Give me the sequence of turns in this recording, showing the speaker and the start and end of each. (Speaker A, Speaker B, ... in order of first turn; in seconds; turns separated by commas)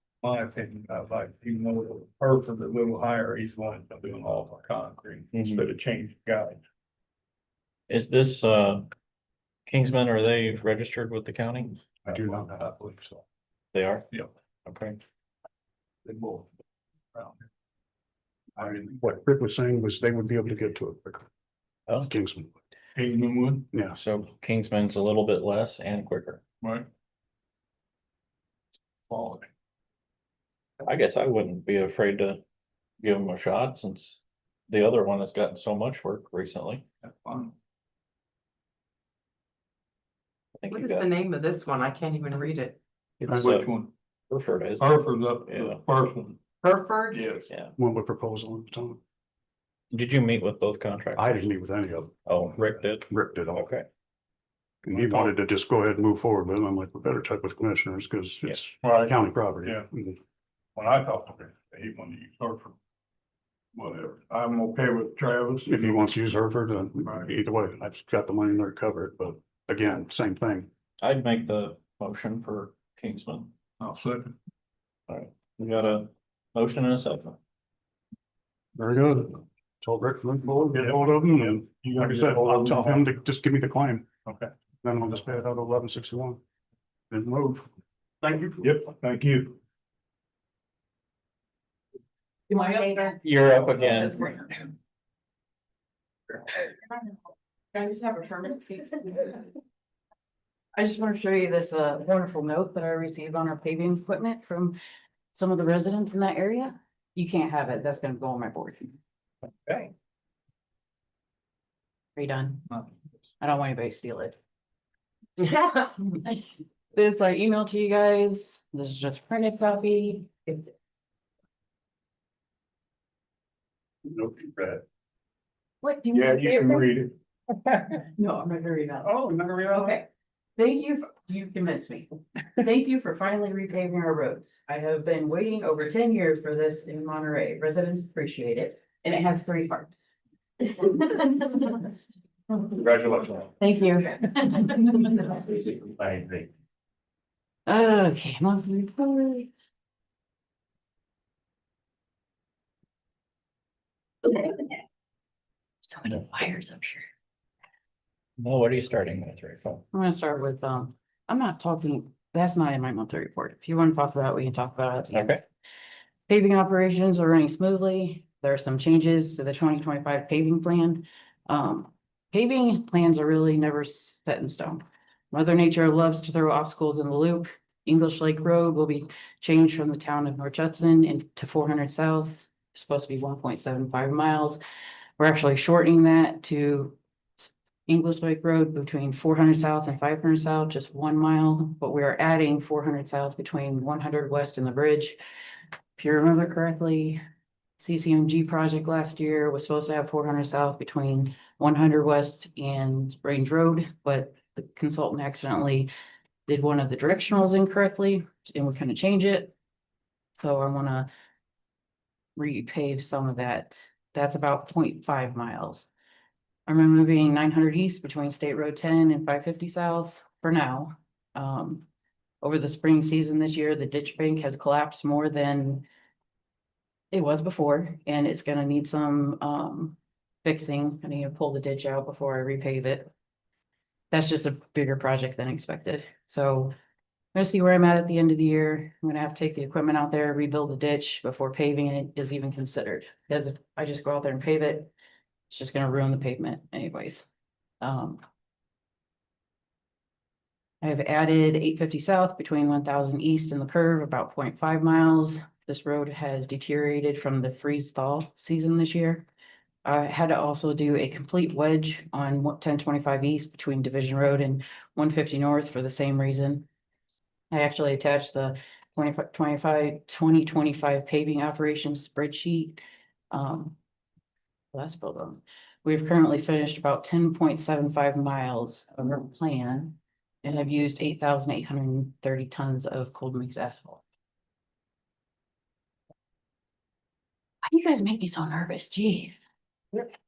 Speaker A: 0.2-6.6, Speaker B: 5.3-5.6, Speaker B: 7.9-8.9, Speaker B: 9.7-11.8, Speaker C: 12.1-12.5, Speaker A: 12.1-13.2, Speaker B: 13.7-14.1, Speaker B: 14.7-15.0, Speaker A: 16.0-16.5, Speaker A: 18.6-19.0, Speaker C: 18.9-21.3, Speaker C: 22.0-22.5, Speaker A: 22.9-23.7, Speaker C: 23.7-24.0, Speaker B: 23.9-26.4, Speaker A: 26.6-26.9, Speaker A: 29.1-29.5, Speaker B: 30.8-32.4, Speaker B: 33.0-36.8, Speaker A: 37.0-37.5, Speaker B: 40.6-41.1, Speaker D: 40.7-42.8, Speaker B: 43.2-43.7, Speaker C: 43.3-43.5, Speaker A: 43.3-43.9, Speaker B: 44.3-45.8, Speaker A: 44.8-46.4, Speaker D: 46.6-47.2, Speaker A: 47.1-47.5, Speaker C: 47.8-49.0, Speaker B: 49.9-51.4, Speaker C: 51.1-53.6, Speaker B: 52.2-53.9, Speaker C: 54.8-60.2, Speaker B: 54.9-55.3, Speaker A: 58.8-59.1, Speaker A: 60.8-62.8, Speaker A: 63.7-66.1, Speaker C: 65.7-70.7, Speaker A: 67.0-67.3, Speaker B: 71.0-73.5, Speaker A: 73.8-74.3, Speaker B: 75.1-77.3, Speaker C: 78.8-84.2, Speaker A: 80.7-83.0, Speaker C: 84.8-86.4, Speaker C: 87.1-87.7, Speaker C: 88.2-88.7, Speaker A: 88.6-89.6, Speaker E: 92.5-93.2, Speaker B: 93.2-94.4, Speaker E: 94.0-94.4, Speaker E: 97.7-99.4, Speaker E: 100.8-104.8, Speaker E: 105.3-109.0, Speaker E: 112.2-112.6, Speaker E: 113.4-114.3, Speaker E: 115.4-120.7, Speaker C: 124.2-124.8, Speaker E: 125.8-126.9, Speaker A: 126.1-127.1, Speaker E: 128.1-130.1, Speaker C: 129.0-129.9, Speaker E: 130.6-142.8, Speaker A: 143.0-143.3, Speaker E: 143.6-145.7, Speaker E: 147.7-149.6, Speaker E: 154.3-154.7, Speaker E: 155.8-157.1, Speaker B: 158.4-159.8, Speaker E: 159.9-165.3, Speaker B: 165.1-165.4, Speaker E: 166.3-184.6, Speaker E: 185.2-195.2, Speaker E: 196.0-197.2, Speaker E: 197.8-205.9, Speaker E: 206.5-209.5, Speaker E: 210.4-211.1, Speaker E: 212.3-215.9, Speaker E: 216.7-221.8, Speaker E: 222.4-225.8, Speaker E: 227.1-233.1, Speaker E: 234.1-236.7, Speaker E: 237.3-244.9, Speaker E: 245.5-247.3, Speaker E: 247.8-248.2, Speaker E: 250.8-259.3, Speaker E: 259.8-266.6, Speaker E: 267.5-272.8, Speaker E: 273.3-273.8, Speaker E: 274.7-284.0, Speaker E: 287.6-289.4